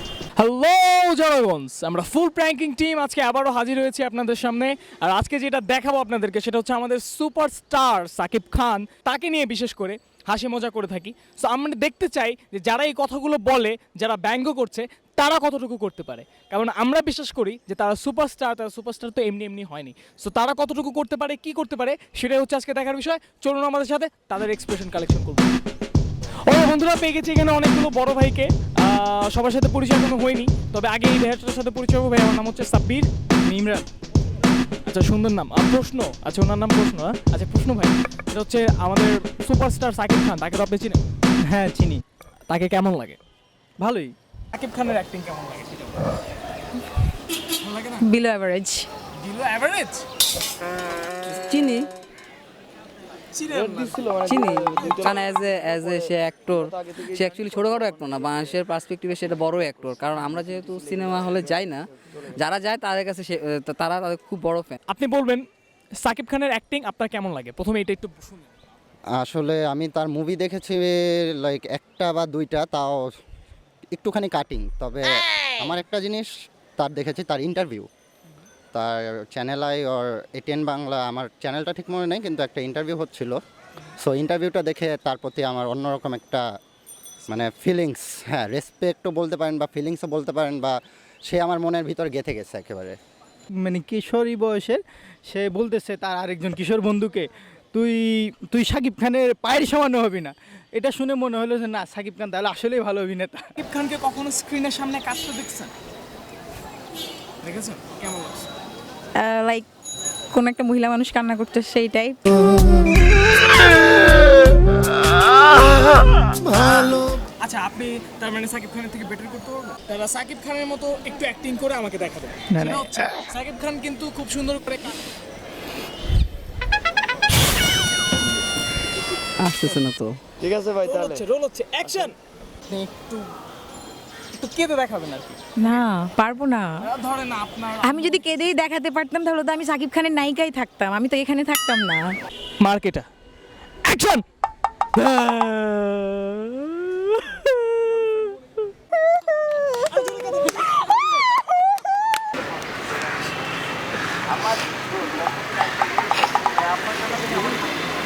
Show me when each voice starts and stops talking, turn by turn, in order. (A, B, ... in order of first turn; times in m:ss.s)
0:00.4-0:25.5 A
0:26.5-0:33.1 A
0:33.4-0:33.9 B
0:34.9-0:41.0 A
0:41.5-0:42.0 B
0:42.5-0:43.2 A
0:43.8-0:44.1 B
0:44.5-0:46.0 A
0:47.6-0:48.0 A
0:48.0-0:48.9 C
0:49.2-0:50.0 A
0:51.3-0:51.9 D
0:53.3-0:54.2 A
0:54.2-1:01.8 D
0:54.8-0:55.1 A
1:02.3-1:04.8 D
1:04.9-1:05.4 A
1:06.0-1:08.5 A
1:09.1-1:13.1 E
1:13.9-1:17.9 E
1:18.7-1:23.4 E
1:24.0-1:26.4 E
1:27.3-1:33.0 E
1:33.6-1:43.4 B
1:43.6-1:45.7 A
1:47.4-1:48.5 A
1:49.2-1:49.7 C
1:50.3-1:52.6 C
1:56.3-2:05.0 A
2:09.4-2:10.2 D
2:10.8-2:12.1 A
2:12.8-2:13.3 A
2:14.3-2:15.4 A
2:15.6-2:16.9 C
2:16.8-2:18.5 A
2:17.8-2:22.1 C
2:22.6-2:23.1 A
2:23.8-2:24.2 A
2:25.0-2:28.3 A
2:29.7-2:31.4 A
2:36.7-2:37.5 A